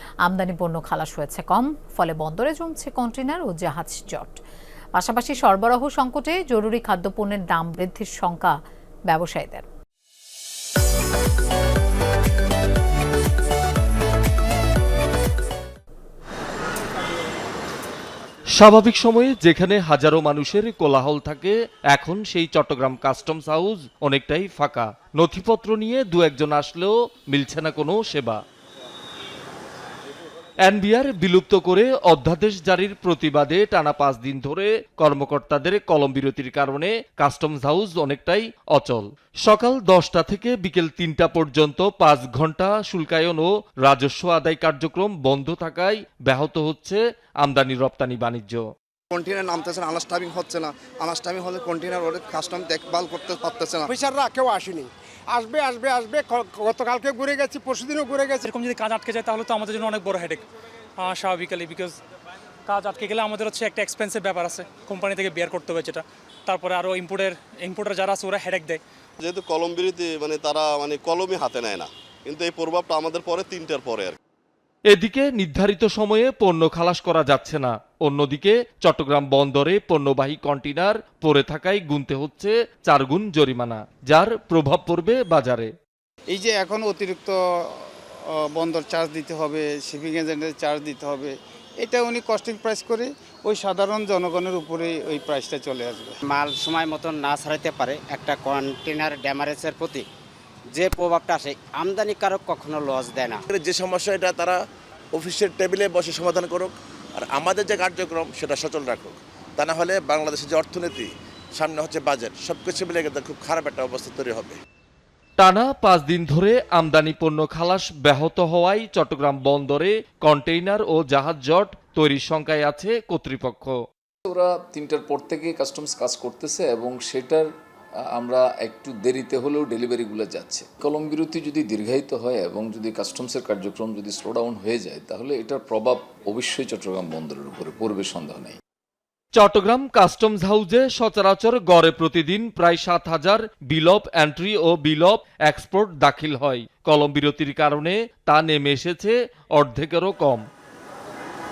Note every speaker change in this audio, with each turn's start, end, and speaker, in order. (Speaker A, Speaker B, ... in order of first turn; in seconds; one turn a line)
Speaker A: 0.2-4.4
Speaker A: 5.0-8.6
Speaker A: 9.1-9.7
Speaker B: 18.6-28.4
Speaker B: 30.6-48.7
Speaker C: 49.1-53.9
Speaker D: 53.9-58.5
Speaker E: 58.5-60.4
Speaker E: 61.0-62.0
Speaker E: 62.7-68.8
Speaker F: 69.2-74.2
Speaker B: 74.9-85.7
Speaker G: 86.3-87.9
Speaker G: 88.5-96.2
Speaker H: 96.3-100.1
Speaker H: 100.7-103.5
Speaker I: 103.5-104.6
Speaker I: 105.1-114.5
Speaker B: 115.4-123.8
Speaker J: 124.3-127.5
Speaker J: 128.1-138.6
Speaker B: 139.3-150.4